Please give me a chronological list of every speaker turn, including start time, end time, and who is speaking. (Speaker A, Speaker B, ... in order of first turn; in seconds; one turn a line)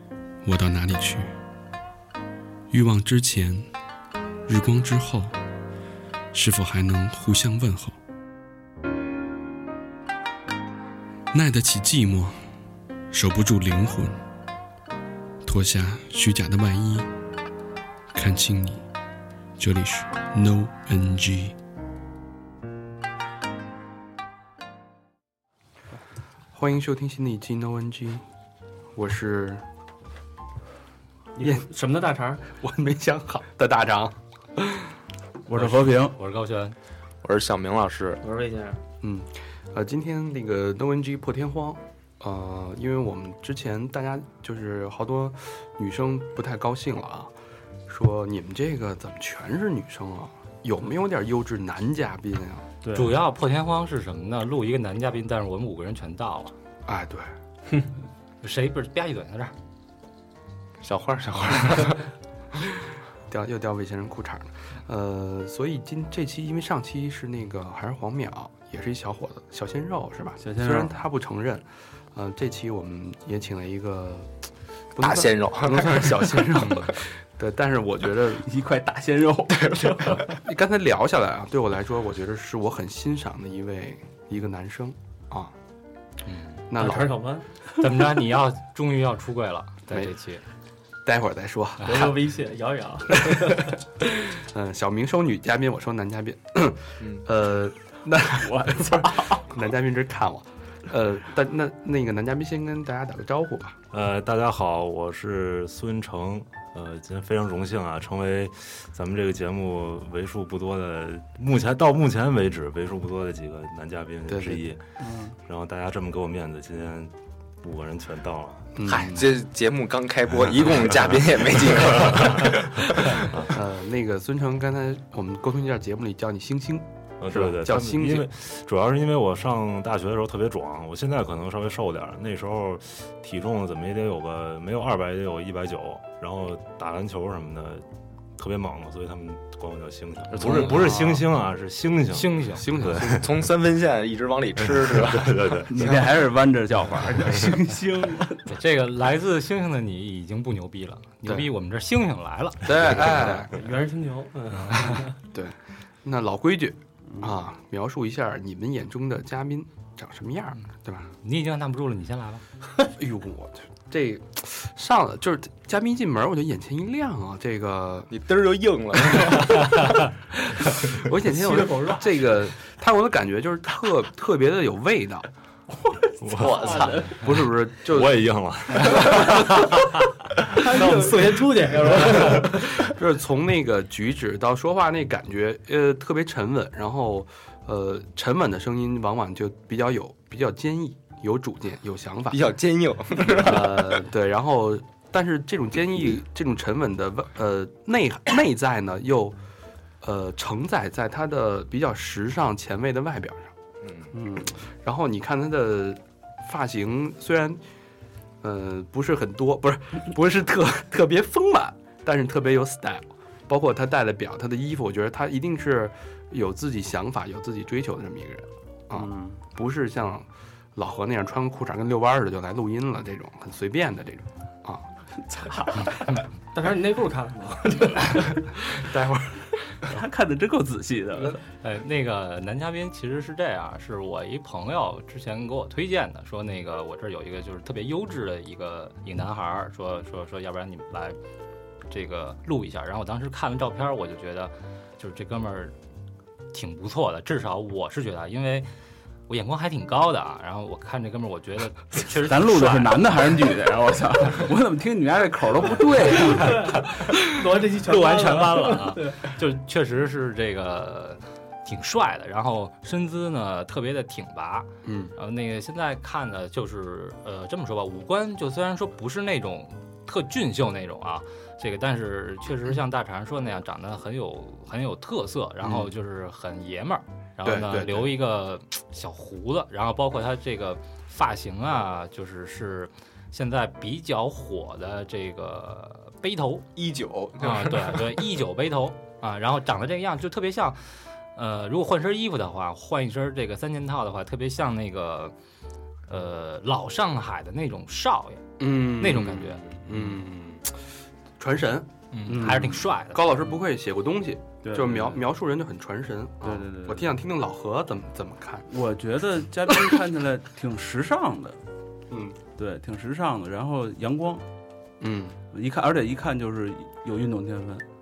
Speaker A: 0.4-1.4
Speaker A: 2.7-3.7
Speaker A: 4.5-5.4
Speaker A: 6.3-8.0
Speaker A: 11.3-12.4
Speaker A: 13.1-14.2
Speaker A: 15.4-17.1
Speaker A: 18.1-18.9
Speaker A: 19.6-21.6
Speaker A: 26.5-28.2
Speaker A: 28.9-29.7
Speaker B: 31.4-32.5
Speaker A: 31.4-31.7
Speaker A: 32.4-34.9
Speaker C: 35.5-36.2
Speaker D: 35.5-36.8
Speaker E: 37.2-38.2
Speaker B: 38.2-38.8
Speaker A: 39.0-47.3
Speaker A: 47.9-52.7
Speaker C: 52.8-53.2
Speaker D: 52.9-56.5
Speaker A: 56.9-57.3
Speaker D: 58.4-59.5
Speaker E: 60.8-62.1
Speaker A: 63.3-78.5
Speaker C: 70.4-70.9
Speaker E: 75.0-76.6
Speaker C: 78.4-80.1
Speaker E: 79.6-80.2
Speaker A: 80.3-85.5
Speaker D: 86.3-86.6
Speaker A: 86.7-87.2
Speaker B: 86.7-87.5
Speaker D: 87.8-90.4
Speaker A: 89.9-90.1
Speaker A: 91.0-92.2
Speaker B: 91.8-93.8
Speaker A: 93.1-103.8
Speaker C: 98.4-99.5
Speaker F: 103.9-114.9
Speaker A: 114.3-114.6
Speaker C: 115.0-115.4
Speaker F: 115.5-118.7
Speaker A: 118.8-119.3
Speaker E: 118.8-123.3
Speaker F: 122.0-122.6
Speaker F: 123.3-123.6
Speaker A: 123.5-128.3
Speaker F: 127.2-137.8
Speaker F: 138.4-143.5
Speaker E: 140.4-140.7
Speaker A: 140.4-141.1
Speaker D: 142.1-142.7
Speaker A: 142.5-143.3
Speaker E: 143.1-145.6
Speaker F: 144.7-145.7
Speaker C: 145.7-148.5
Speaker D: 148.5-152.9
Speaker A: 152.6-153.5
Speaker B: 153.4-155.2
Speaker A: 155.3-161.1
Speaker D: 161.2-162.4
Speaker A: 162.9-168.1
Speaker E: 168.1-169.9
Speaker A: 171.0-175.3
Speaker B: 171.4-172.0
Speaker F: 176.2-177.3
Speaker E: 176.3-177.1
Speaker B: 176.6-177.1
Speaker A: 177.2-178.2
Speaker F: 177.8-179.6
Speaker B: 180.6-182.9
Speaker A: 182.8-192.5
Speaker E: 192.3-194.0
Speaker A: 193.2-199.4
Speaker A: 200.0-203.5
Speaker E: 203.8-204.1
Speaker C: 204.1-204.5
Speaker A: 204.4-207.6
Speaker A: 208.4-224.9
Speaker C: 218.9-219.4
Speaker B: 226.5-228.6
Speaker A: 228.8-229.3
Speaker C: 229.9-231.4
Speaker D: 231.6-241.2
Speaker D: 241.9-245.8
Speaker D: 246.5-248.7
Speaker D: 249.3-253.0
Speaker C: 252.2-256.6
Speaker B: 256.2-259.3
Speaker D: 256.9-257.1
Speaker D: 257.9-286.7
Speaker A: 264.8-265.1
Speaker A: 275.6-275.9
Speaker A: 277.4-278.1
Speaker E: 286.8-288.2
Speaker D: 287.4-295.3
Speaker D: 296.1-299.6
Speaker A: 298.6-300.8
Speaker A: 301.4-308.7
Speaker D: 302.1-303.3
Speaker C: 304.6-305.2
Speaker C: 306.4-307.1
Speaker C: 308.7-311.6
Speaker A: 312.1-312.4
Speaker C: 312.6-314.4
Speaker A: 315.0-315.4
Speaker C: 315.5-317.9